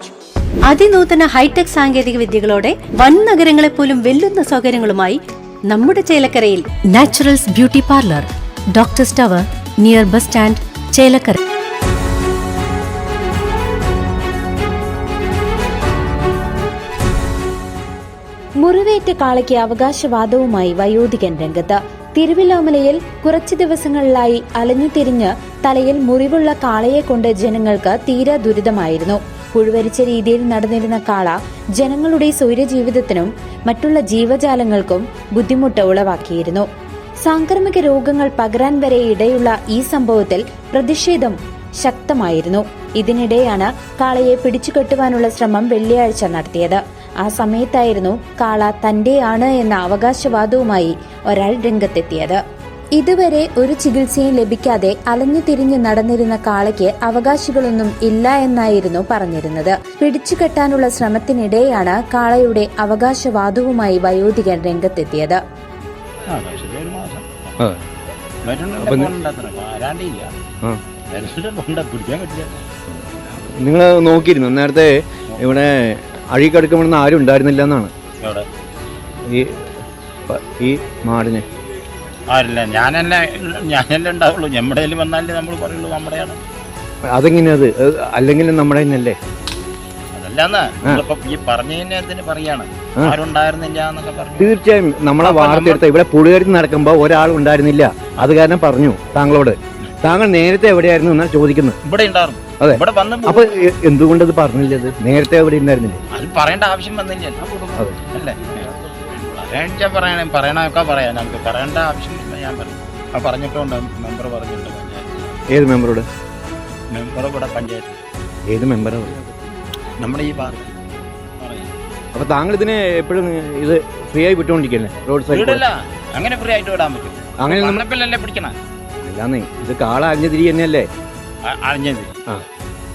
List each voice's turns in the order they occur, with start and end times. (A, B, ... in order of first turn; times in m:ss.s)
0:00.7-0:11.4 A
0:18.6-0:36.7 B
0:37.2-0:52.4 B
0:53.0-1:05.4 B
1:06.3-1:07.6 C
1:08.4-1:10.3 C
1:08.8-1:09.1 D
1:11.1-1:12.6 C
1:13.3-1:17.9 D
1:19.3-1:19.6 D
1:20.3-1:21.4 D
1:22.3-1:26.4 C
1:27.1-1:29.2 D
1:30.1-1:34.6 C
1:34.4-1:41.8 D
1:35.2-1:35.8 C
1:41.8-1:43.5 C
1:42.6-1:46.0 D
1:46.1-1:55.0 C
1:55.5-1:56.0 D
1:56.9-1:58.0 C
1:58.5-1:59.2 D
2:00.0-2:00.7 C
2:01.4-2:01.7 C
2:02.1-2:05.6 D
2:05.3-2:08.6 C
2:07.4-2:07.8 D
2:09.0-2:10.9 D
2:11.4-2:12.2 C